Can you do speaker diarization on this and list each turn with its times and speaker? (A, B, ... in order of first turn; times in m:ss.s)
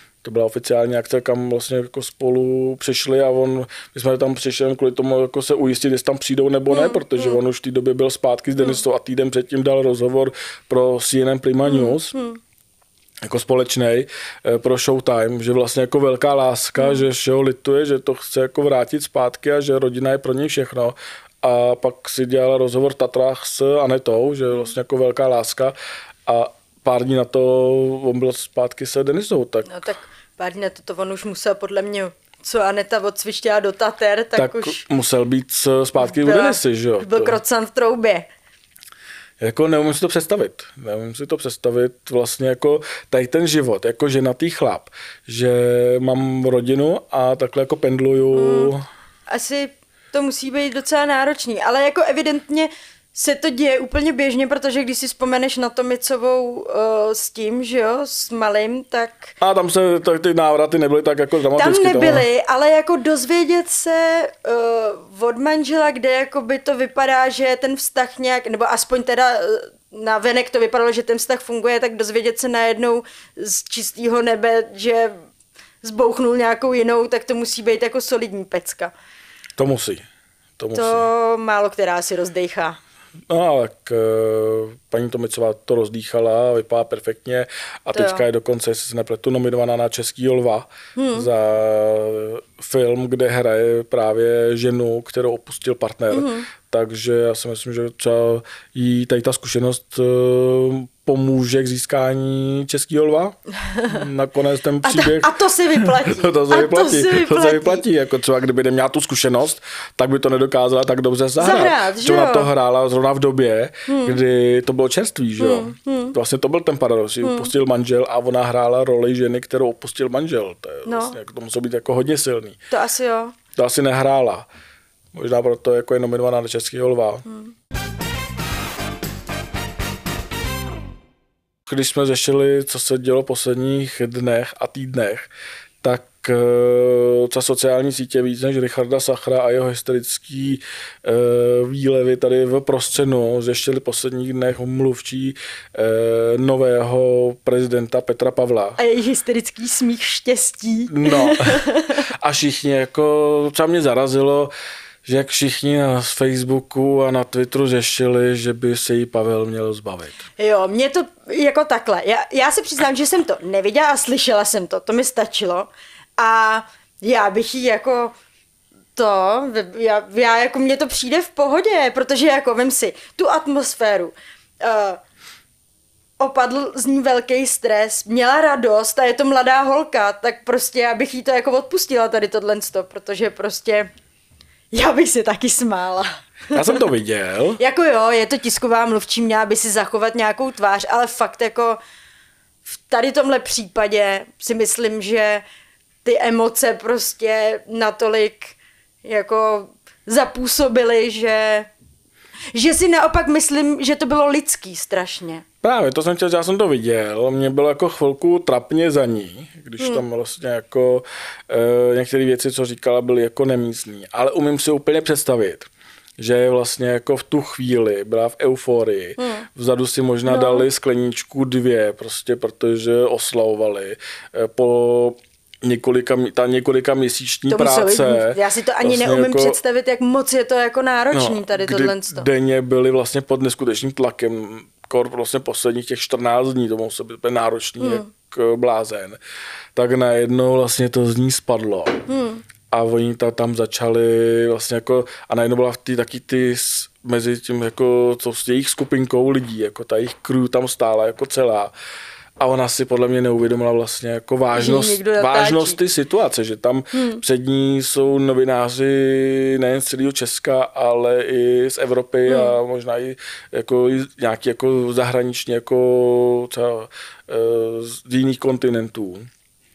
0:00.2-0:12.2 A
0:06.7-0:07.4 B
0:11.6-0:12.4 B
0:13.2-0:25.8 A
0:16.8-0:17.0 B
0:26.3-0:29.8 A
0:29.7-0:34.8 B
0:34.4-0:37.4 A
0:36.0-0:38.3 B
0:39.4-0:48.8 A
0:48.4-0:48.7 B
0:49.3-0:59.4 B
0:59.4-1:02.3 A
1:01.6-1:15.2 B
1:15.8-1:18.9 B
1:19.6-1:20.0 A
1:20.6-1:21.0 A
1:20.7-1:22.8 B
1:23.3-2:02.6 A
1:27.9-1:28.3 B
1:31.0-1:31.3 B
1:36.1-1:36.5 B
1:43.7-1:44.0 B
1:44.8-1:47.8 B
1:51.4-1:52.5 B
1:53.9-1:54.2 B
1:55.4-1:56.2 B
1:57.2-1:57.5 B
2:00.9-2:01.2 B
2:02.7-2:03.4 B
2:03.6-2:04.5 A
2:05.1-2:07.2 A
2:11.7-2:15.3 A
2:15.8-2:28.8 A
2:28.8-2:32.0 B
2:30.9-2:34.5 A
2:35.0-2:40.2 A
2:40.4-2:48.2 B
2:49.0-2:55.0 B
2:56.2-3:03.9 B
3:04.7-3:06.8 B
3:06.5-3:07.6 A
3:07.6-3:11.8 B
3:12.7-3:15.4 B
3:16.0-3:21.7 B
3:22.5-3:25.4 B
3:25.6-3:49.6 A
3:39.2-3:39.5 B
3:40.3-3:40.7 B
3:47.5-3:52.3 B
3:51.1-3:59.2 A
3:57.8-3:58.1 B
3:59.8-4:02.0 A
4:02.1-4:02.4 B
4:02.7-4:11.7 A
4:12.4-4:29.3 A
4:14.5-4:15.8 B
4:16.9-4:17.2 B
4:22.3-4:22.6 B